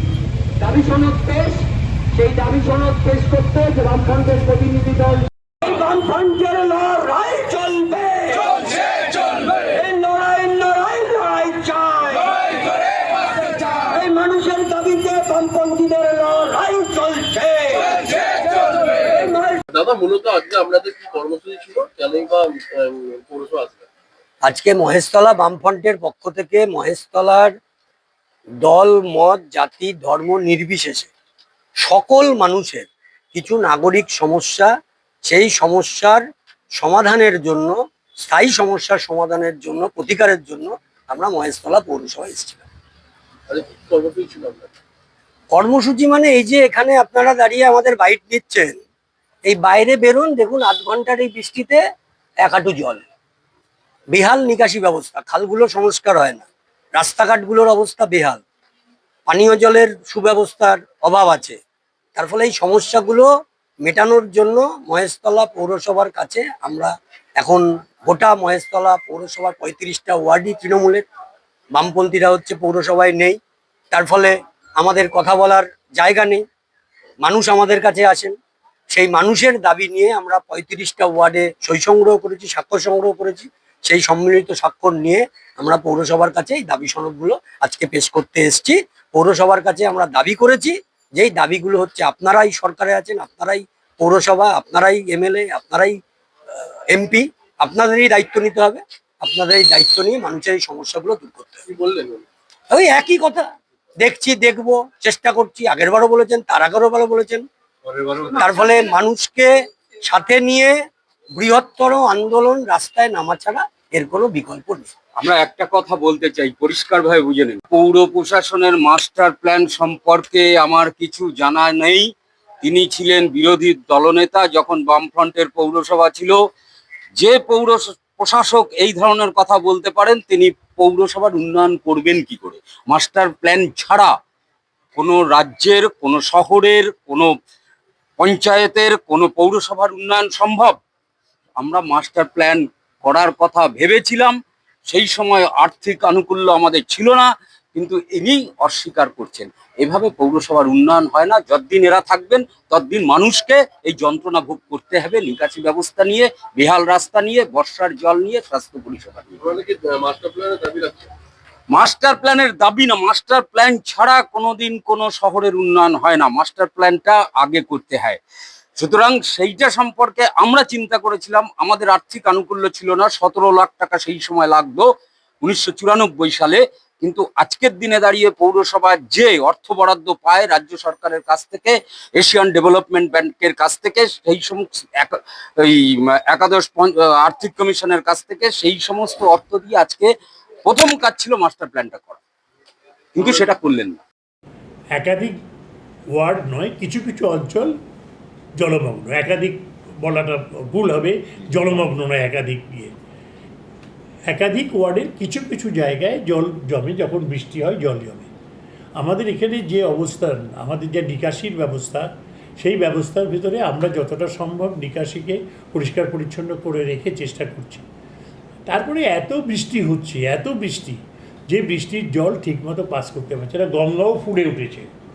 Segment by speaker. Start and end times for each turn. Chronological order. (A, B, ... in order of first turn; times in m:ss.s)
0:00.6-0:12.4 A
0:13.4-0:18.2 A
0:18.4-0:23.8 B
0:19.2-0:19.6 A
0:24.4-0:27.5 C
0:28.6-0:31.1 C
0:31.8-0:34.7 C
0:35.2-0:36.2 C
0:36.8-0:42.7 C
0:43.5-0:44.7 B
0:45.5-0:48.8 C
0:49.4-0:51.8 C
0:52.4-0:53.0 C
0:54.1-0:58.4 C
0:59.3-1:01.6 C
1:02.1-1:03.3 C
1:03.8-1:11.0 C
1:11.7-1:13.4 C
1:13.9-1:16.4 C
1:17.2-1:18.4 C
1:18.9-1:36.0 C
1:36.6-1:41.6 C
1:41.7-1:42.2 B
1:42.7-1:43.4 C
1:44.0-1:47.4 C
1:47.9-1:48.7 B
1:48.4-1:49.5 C
1:50.1-1:50.7 C
1:51.3-1:54.9 C
1:55.2-2:02.1 D
2:02.6-2:06.4 D
2:07.2-2:14.1 D
2:15.0-2:17.3 D
2:18.2-2:20.8 D
2:21.6-2:24.4 D
2:24.9-2:39.5 D
2:39.4-2:41.1 B
2:41.7-2:48.2 D
2:48.8-2:54.9 D
2:55.4-3:10.1 D
3:10.6-3:12.2 D
3:13.2-3:14.0 D
3:15.0-3:15.3 E
3:16.2-3:17.7 E
3:18.6-3:22.9 E
3:24.3-3:28.3 E
3:29.0-3:32.1 E
3:32.6-3:37.8 E
3:38.7-3:41.0 E
3:41.5-3:44.9 E